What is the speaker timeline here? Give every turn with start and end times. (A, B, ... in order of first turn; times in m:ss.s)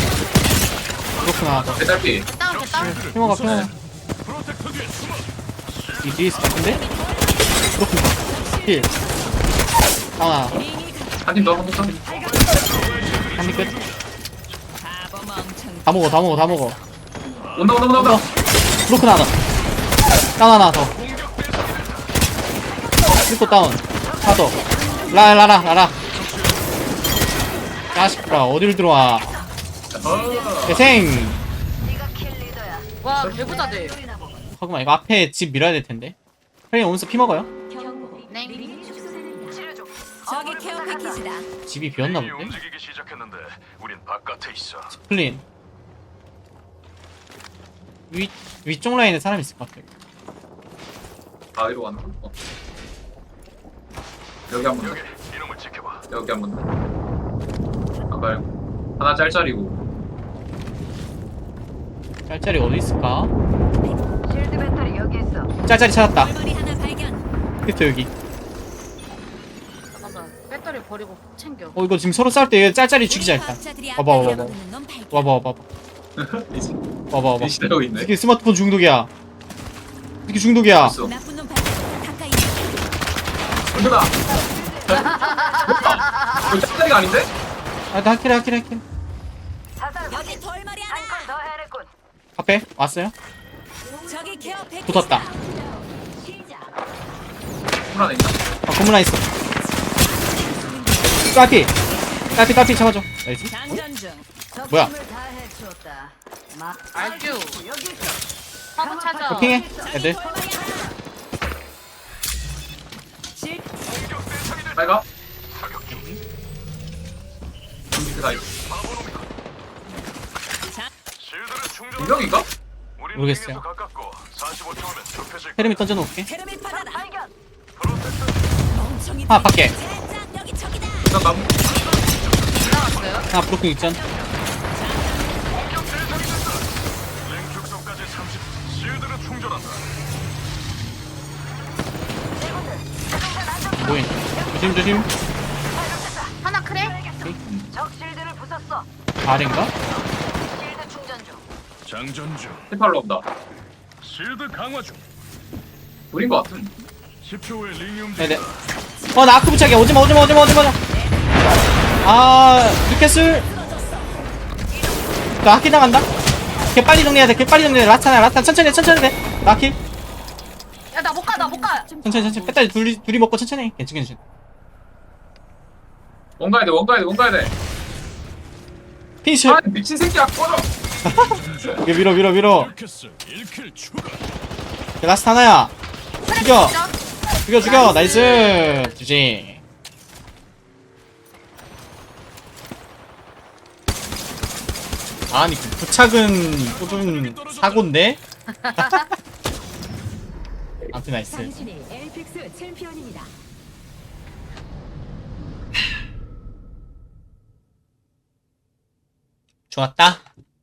0:01.2-0:01.8 A
0:01.3-0:01.8 B
0:01.7-0:02.3 C
0:02.2-0:03.1 D
0:02.5-0:03.7 B
0:02.7-0:03.7 A
0:03.4-0:03.7 C
0:04.2-0:06.7 B
0:06.0-0:06.8 A
0:06.6-0:09.7 E
0:07.7-0:08.9 A
0:10.2-0:10.6 A
0:10.5-0:11.6 E
0:11.2-0:11.9 C
0:12.1-0:14.0 B
0:13.3-0:13.7 A
0:14.8-0:16.8 E
0:15.8-0:16.8 A
0:17.6-0:18.2 C
0:17.9-0:18.2 A
0:18.8-0:19.3 A
0:20.4-0:20.9 A
0:21.0-0:22.0 B
0:23.1-0:24.6 A
0:25.1-0:26.0 A
0:26.2-0:26.6 B
0:27.9-0:29.3 A
0:29.9-0:30.8 C
0:30.1-0:30.7 E
0:30.6-0:31.4 A
0:31.9-0:32.9 F
0:33.0-0:34.0 D
0:33.2-0:33.5 C
0:33.5-0:34.4 F
0:34.6-0:36.2 A
0:36.7-0:37.5 A
0:37.8-0:39.6 E
0:38.3-0:38.8 D
0:38.7-0:39.9 F
0:40.2-0:41.5 E
0:41.7-0:42.6 A
0:42.0-0:44.9 B
0:44.9-0:45.4 A
0:48.1-0:49.8 A
0:51.5-0:52.3 C
0:54.5-0:55.1 C
0:54.8-0:56.0 B
0:56.1-0:56.7 C
0:58.1-0:59.8 C
1:02.3-1:03.3 A
1:04.3-1:05.5 F
1:05.6-1:06.3 A
1:06.1-1:07.2 E
1:07.6-1:08.1 A
1:09.9-1:11.7 D
1:11.8-1:14.5 A
1:13.1-1:15.3 E
1:14.2-1:14.5 C
1:15.1-1:15.6 A
1:16.2-1:16.8 C
1:17.1-1:19.1 A
1:17.4-1:18.1 C
1:20.3-1:21.0 A
1:20.8-1:21.1 C
1:21.0-1:22.8 E
1:23.7-1:24.1 C
1:24.9-1:27.3 C
1:25.0-1:26.5 D
1:25.4-1:25.6 F
1:27.9-1:28.8 A
1:29.8-1:30.2 F
1:30.1-1:31.4 E
1:31.2-1:31.9 F
1:32.4-1:33.1 A
1:34.0-1:35.3 E
1:34.8-1:35.3 A
1:36.4-1:36.6 F
1:37.9-1:38.5 C
1:38.7-1:39.3 A
1:39.4-1:41.5 E
1:41.2-1:41.7 A
1:42.4-1:43.8 A
1:43.5-1:44.2 E
1:44.7-1:44.9 A
1:44.9-1:46.1 F
1:46.7-1:48.1 F
1:46.9-1:47.6 D
1:48.8-1:49.5 D
1:48.8-1:50.3 F
1:49.2-1:50.2 A
1:49.8-1:50.9 E
1:53.3-1:53.7 E
1:54.1-1:54.8 B
1:54.8-1:55.0 C
1:55.6-1:56.0 B
1:55.9-1:56.2 A
1:57.9-1:58.5 C
1:58.6-1:59.2 B
2:01.2-2:02.3 B
2:02.0-2:02.5 C
2:03.0-2:05.7 B
2:03.1-2:03.6 A
2:05.6-2:06.3 A
2:06.2-2:07.1 E
2:07.0-2:07.3 F
2:07.8-2:08.3 B
2:08.7-2:11.2 E
2:09.3-2:09.7 A
2:11.1-2:11.6 C
2:11.8-2:13.2 B
2:12.6-2:13.3 D
2:13.3-2:14.0 A
2:14.7-2:15.3 E
2:16.0-2:16.6 B
2:17.3-2:19.8 B
2:23.3-2:23.7 F
2:23.8-2:25.1 A
2:26.4-2:27.0 D
2:27.4-2:27.7 C
2:27.8-2:28.8 F
2:29.2-2:29.7 A
2:30.5-2:31.4 F
2:31.8-2:32.7 B
2:32.7-2:33.2 C
2:34.0-2:35.0 B
2:36.1-2:36.7 C
2:37.2-2:38.5 B
2:38.2-2:38.4 A
2:39.1-2:40.8 A
2:40.9-2:41.1 E
2:42.0-2:43.5 A
2:43.6-2:44.0 E
2:45.4-2:46.1 A
2:46.7-2:49.8 A
2:50.9-2:52.0 D
2:51.3-2:51.6 E
2:52.0-2:54.2 A
2:56.4-2:57.5 C
2:59.2-2:59.6 A
2:59.4-3:00.7 C
3:01.0-3:02.7 A
3:01.4-3:01.8 B
3:02.5-3:04.2 B
3:05.0-3:05.7 A
3:06.3-3:06.9 D
3:06.3-3:06.8 A
3:07.4-3:09.6 A
3:07.6-3:08.9 D
3:15.3-3:18.2 A
3:16.7-3:17.8 B
3:18.5-3:19.0 D
3:18.8-3:19.0 A
3:20.9-3:21.5 A
3:21.3-3:23.3 E
3:29.7-3:30.2 A